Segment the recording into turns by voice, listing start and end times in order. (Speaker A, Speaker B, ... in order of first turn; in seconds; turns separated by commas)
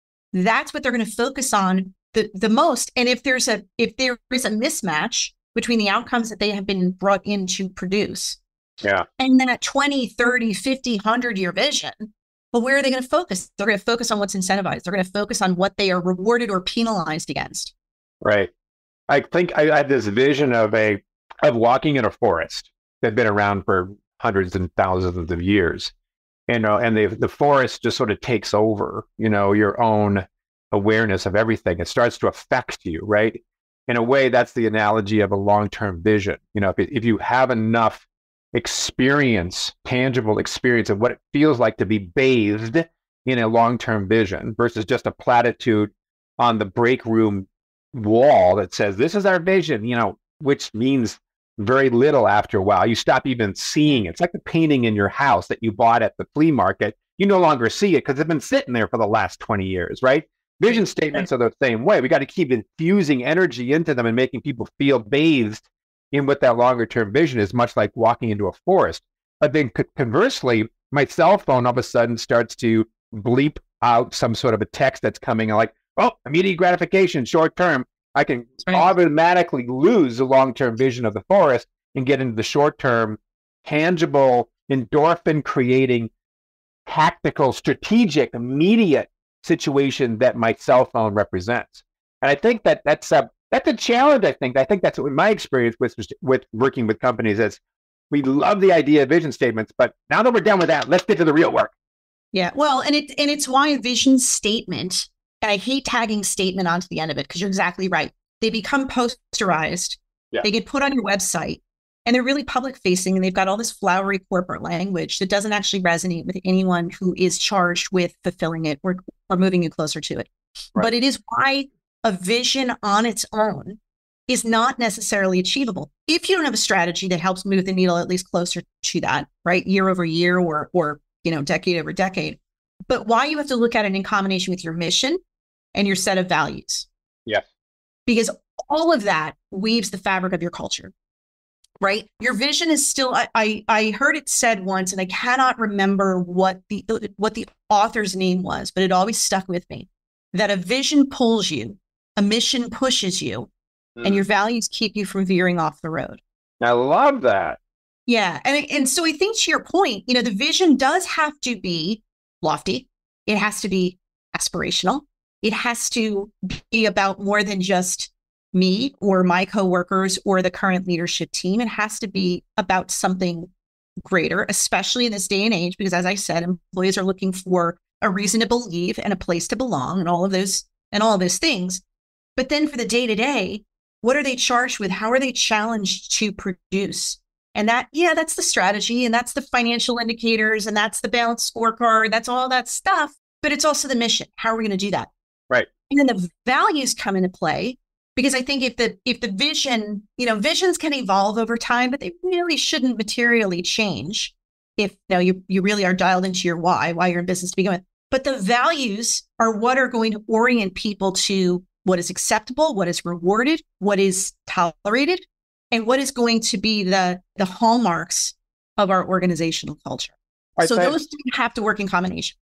Speaker A: 0.3-8.4, Speaker A: 9.2-17.7, Speaker B: 18.2-18.5, Speaker B: 19.1-25.9, Speaker B: 26.5-86.1, Speaker A: 78.6-78.9, Speaker B: 86.9-97.6, Speaker B: 98.1-101.7, Speaker A: 102.3-135.2, Speaker A: 135.8-136.9, Speaker A: 138.1-140.9, Speaker A: 141.8-153.5, Speaker B: 154.0-154.2, Speaker A: 154.0-156.2, Speaker B: 156.6-157.6, Speaker A: 158.1-173.5, Speaker A: 174.1-181.8, Speaker A: 182.4-195.1, Speaker A: 195.9-222.3, Speaker B: 220.6-220.9